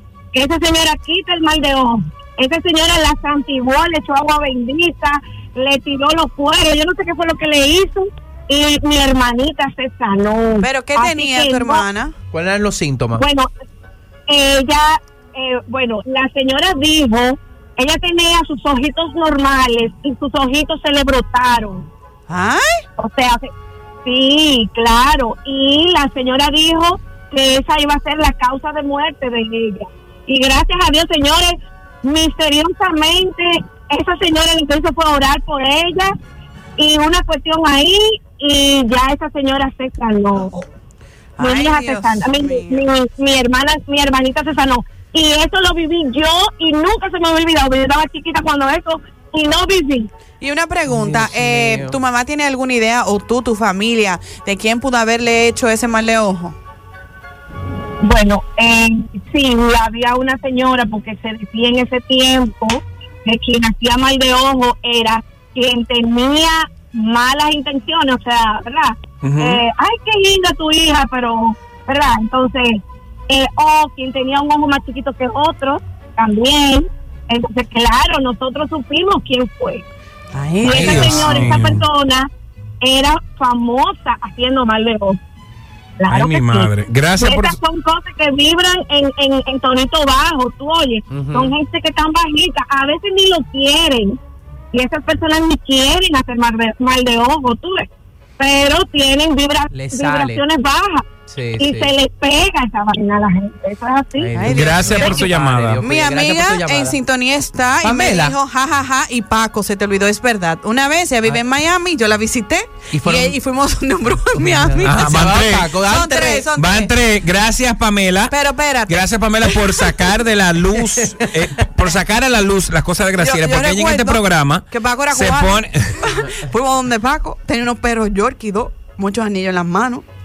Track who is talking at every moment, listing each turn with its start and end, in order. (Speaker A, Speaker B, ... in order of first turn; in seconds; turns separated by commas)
Speaker A: 0.3-11.8, Speaker B: 10.6-12.1, Speaker C: 12.3-13.2, Speaker A: 13.2-13.5, Speaker A: 14.3-21.9, Speaker B: 22.3-22.7, Speaker A: 23.0-23.5, Speaker A: 24.0-36.1, Speaker A: 36.8-40.6, Speaker B: 41.4-42.8, Speaker A: 41.4-50.1, Speaker B: 50.4-56.5, Speaker C: 50.9-52.0, Speaker A: 58.0-79.8, Speaker D: 69.2-69.6, Speaker B: 80.3-81.4, Speaker A: 80.6-82.3, Speaker D: 80.6-81.8, Speaker C: 80.7-81.2, Speaker A: 82.8-85.2, Speaker A: 86.0-94.2, Speaker D: 86.1-87.5, Speaker C: 91.1-91.5, Speaker A: 94.7-97.9, Speaker A: 98.4-104.3, Speaker C: 99.7-100.4, Speaker C: 101.3-101.9, Speaker C: 104.2-107.0, Speaker B: 104.3-105.3, Speaker D: 104.5-105.8, Speaker B: 105.8-116.9, Speaker C: 107.8-108.3, Speaker C: 112.9-113.4, Speaker C: 114.6-116.5, Speaker D: 114.8-115.7, Speaker D: 116.5-118.3, Speaker B: 118.3-120.0, Speaker D: 118.9-126.1, Speaker B: 123.2-130.0